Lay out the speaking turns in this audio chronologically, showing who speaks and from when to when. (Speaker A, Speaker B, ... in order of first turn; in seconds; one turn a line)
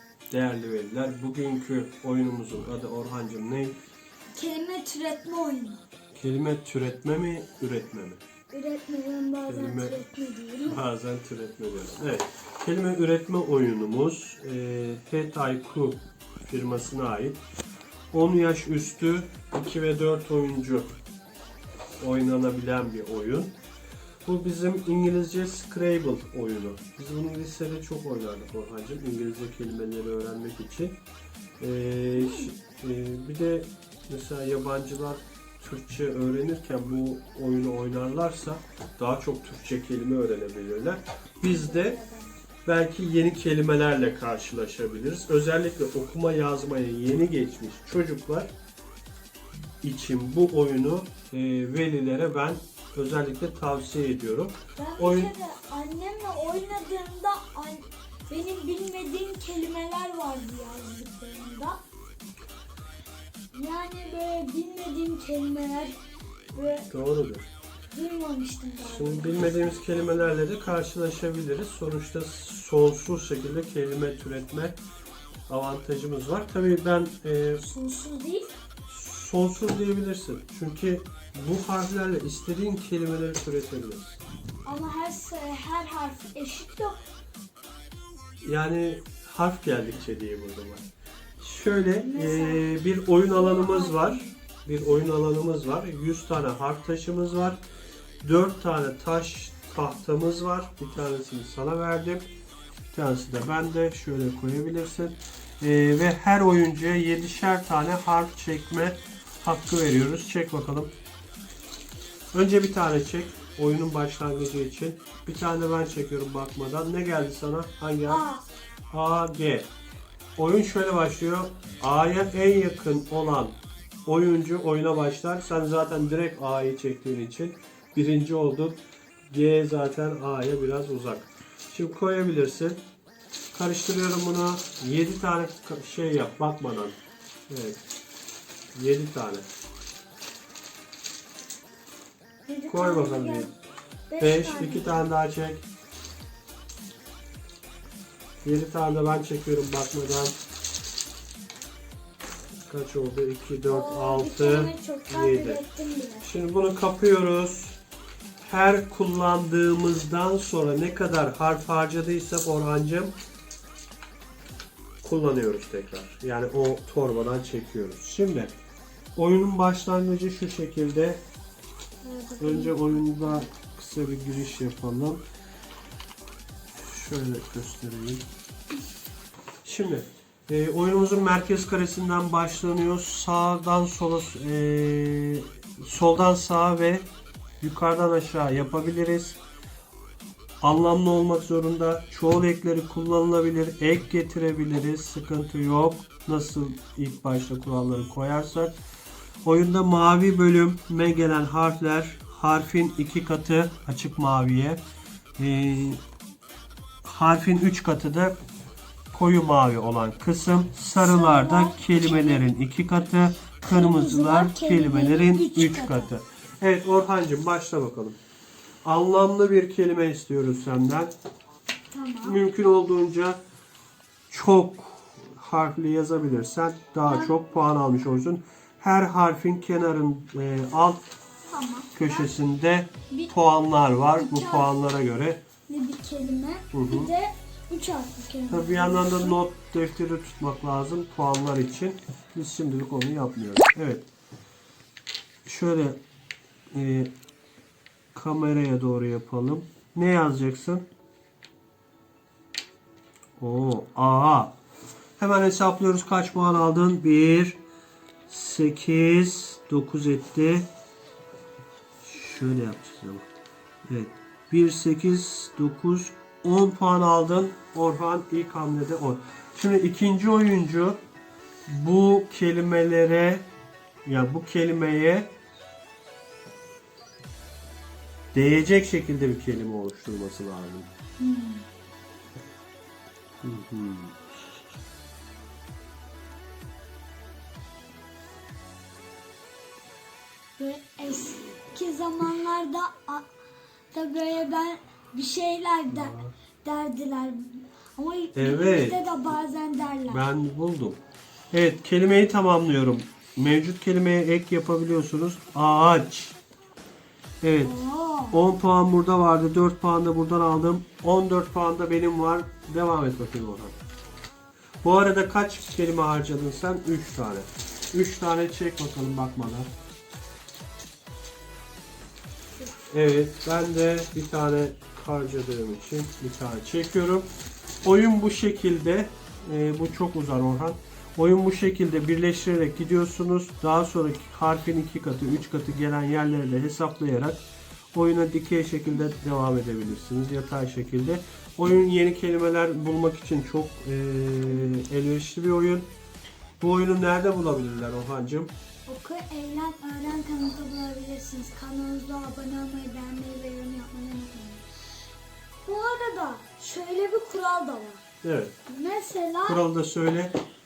Speaker A: 0.3-3.8
Speaker B: 4.3-5.8
Speaker A: 6.1-8.2
Speaker B: 8.5-10.8
Speaker A: 9.5-10.0
Speaker A: 10.6-17.4
Speaker A: 18.1-20.9
Speaker A: 22.0-23.5
Speaker A: 24.2-30.9
Speaker A: 31.6-42.0
Speaker B: 32.1-32.5
Speaker B: 41.4-42.3
Speaker A: 42.6-48.5
Speaker A: 49.8-55.3
Speaker B: 54.8-61.8
Speaker B: 63.5-66.0
Speaker B: 66.5-66.9
Speaker A: 66.9-67.5
Speaker B: 67.9-70.1
Speaker A: 68.8-74.8
Speaker A: 75.5-77.6
Speaker B: 77.6-78.5
Speaker A: 78.9-84.2
Speaker B: 84.6-87.0
Speaker A: 88.4-90.8
Speaker A: 91.4-97.6
Speaker B: 92.0-94.4
Speaker A: 98.2-102.2
Speaker A: 102.9-110.9
Speaker A: 112.3-118.2
Speaker B: 118.1-118.4
Speaker A: 118.9-119.7
Speaker A: 120.3-123.5
Speaker A: 124.0-132.8
Speaker A: 133.5-137.0
Speaker A: 137.5-137.8
Speaker A: 138.7-139.4
Speaker B: 142.5-143.5
Speaker A: 142.7-143.5
Speaker B: 144.1-145.0
Speaker A: 144.2-145.6
Speaker A: 148.4-150.3
Speaker A: 152.7-155.6
Speaker B: 153.7-156.3
Speaker A: 156.2-157.8
Speaker A: 158.4-163.1
Speaker A: 165.0-168.5
Speaker A: 169.2-171.2
Speaker B: 172.0-173.4
Speaker A: 172.4-175.2
Speaker A: 176.7-178.2
Speaker A: 179.6-187.1
Speaker A: 187.6-189.4
Speaker A: 190.6-198.7
Speaker A: 199.4-204.8
Speaker A: 205.4-206.0
Speaker A: 207.0-208.3
Speaker A: 209.1-218.2
Speaker B: 210.9-212.5
Speaker B: 213.7-216.1
Speaker A: 218.8-221.1
Speaker B: 221.9-222.4
Speaker A: 222.2-223.4
Speaker A: 224.3-231.0
Speaker B: 227.1-227.4
Speaker B: 231.5-232.3
Speaker A: 231.9-235.4
Speaker B: 234.2-234.7
Speaker B: 235.7-239.4
Speaker A: 236.7-237.1
Speaker A: 238.5-244.1
Speaker A: 245.4-246.0
Speaker A: 246.7-247.1
Speaker A: 248.1-250.8
Speaker A: 253.4-254.5
Speaker A: 255.2-257.6
Speaker A: 258.3-260.7
Speaker A: 262.0-263.2
Speaker A: 263.9-271.0
Speaker A: 271.7-273.4
Speaker A: 274.1-275.3
Speaker A: 278.3-280.9
Speaker B: 281.2-281.6
Speaker A: 283.4-284.1
Speaker B: 290.6-293.3
Speaker B: 293.9-300.2
Speaker A: 295.9-296.3
Speaker A: 298.3-299.0
Speaker A: 300.1-301.0
Speaker A: 301.5-306.4
Speaker A: 307.4-307.7
Speaker B: 307.6-308.4
Speaker A: 308.3-313.8
Speaker A: 314.8-319.7
Speaker A: 322.9-327.3
Speaker A: 327.8-337.4
Speaker A: 337.9-345.9
Speaker A: 346.6-348.5
Speaker B: 348.9-354.7
Speaker B: 355.6-358.0
Speaker A: 358.2-358.5
Speaker B: 358.7-359.6
Speaker A: 359.4-360.4